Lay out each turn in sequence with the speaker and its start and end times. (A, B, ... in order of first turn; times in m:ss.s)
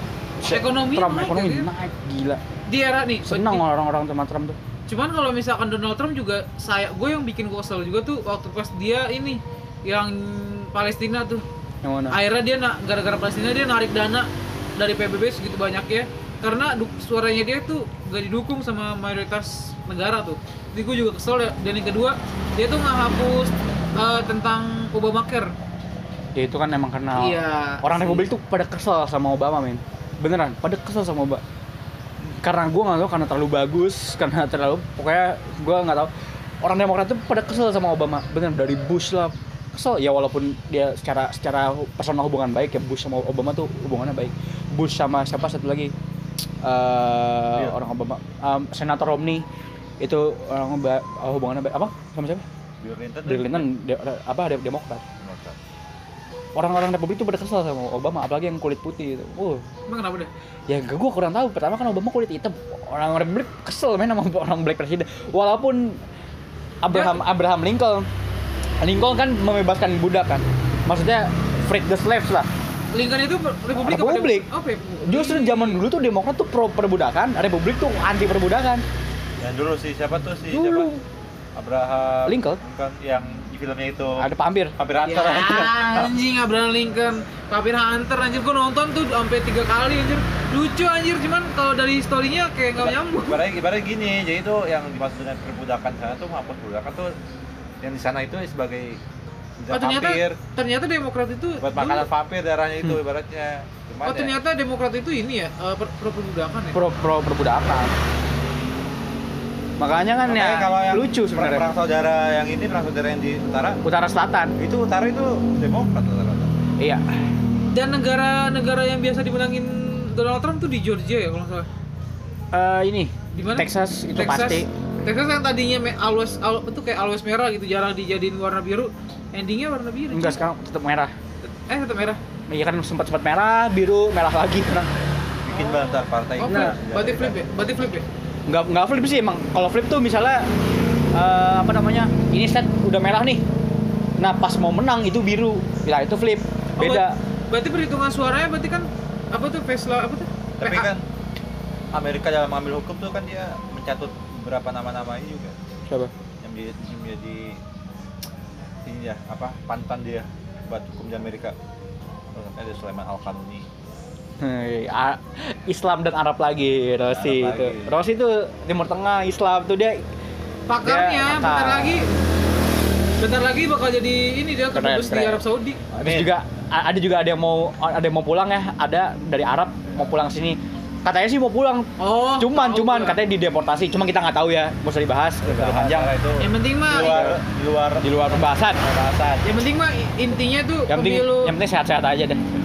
0:00.4-0:02.4 A
0:00.5-0:01.7 B
0:02.7-0:03.6 B
0:03.3-0:04.6 A
0:04.9-0:11.4 B
0:11.8-0:12.2 A
0:12.1-0:25.5 B
0:26.4-0:31.4 A
0:27.2-0:28.3 B
0:32.3-0:36.1 A
0:36.6-0:45.9 A
0:46.6-0:49.4 A
0:50.0-0:52.4 A
0:52.8-0:53.7 C
0:53.3-0:55.0 A
0:55.2-0:55.6 C
0:56.6-0:59.6 A
0:59.9-1:00.3 B
1:00.7-1:06.0 A
1:06.8-1:08.1 A
1:06.9-1:07.2 B
1:08.8-1:12.5 A
1:12.9-1:15.8 B
1:13.8-1:14.5 A
1:15.0-1:18.8 A
1:19.4-1:20.9 C
1:20.5-1:21.0 A
1:21.6-1:26.1 C
1:22.3-1:22.6 A
1:24.2-1:24.8 A
1:25.0-1:33.4 B
1:32.8-1:37.1 C
1:37.8-1:39.0 C
1:39.6-1:40.4 C
1:39.7-1:42.1 B
1:41.6-1:44.4 C
1:44.0-1:46.8 B
1:46.7-1:48.0 A
1:49.8-1:51.7 A
1:50.3-1:53.8 C
1:53.8-1:54.6 A
1:54.6-1:56.6 C
1:56.8-1:57.0 A
1:57.7-2:01.7 B
2:02.5-2:04.7 A
2:03.3-2:10.4 B
2:10.1-2:11.1 A
2:11.4-2:12.2 B
2:12.5-2:15.1 A
2:15.4-2:17.4 C
2:15.5-2:18.0 B
2:16.5-2:16.8 A
2:18.5-2:20.5 A
2:21.1-2:23.4 A
2:24.2-2:27.2 A
2:26.8-2:30.9 B
2:30.6-2:31.0 C
2:31.9-2:35.6 C
2:36.4-2:37.6 C
2:38.8-2:41.6 C
2:42.3-2:43.7 C
2:44.4-2:50.0 A
2:47.1-2:48.0 C
2:50.7-2:52.1 B
2:50.8-2:52.0 A
2:53.2-2:55.8 B
2:54.7-2:55.4 A
2:56.0-3:06.1 A
2:56.0-2:56.3 C
3:02.0-3:03.2 B
3:05.4-3:09.6 C
3:06.4-3:07.2 B
3:06.9-3:07.4 A
3:08.0-3:08.8 A
3:09.4-3:11.5 B
3:10.9-3:12.4 A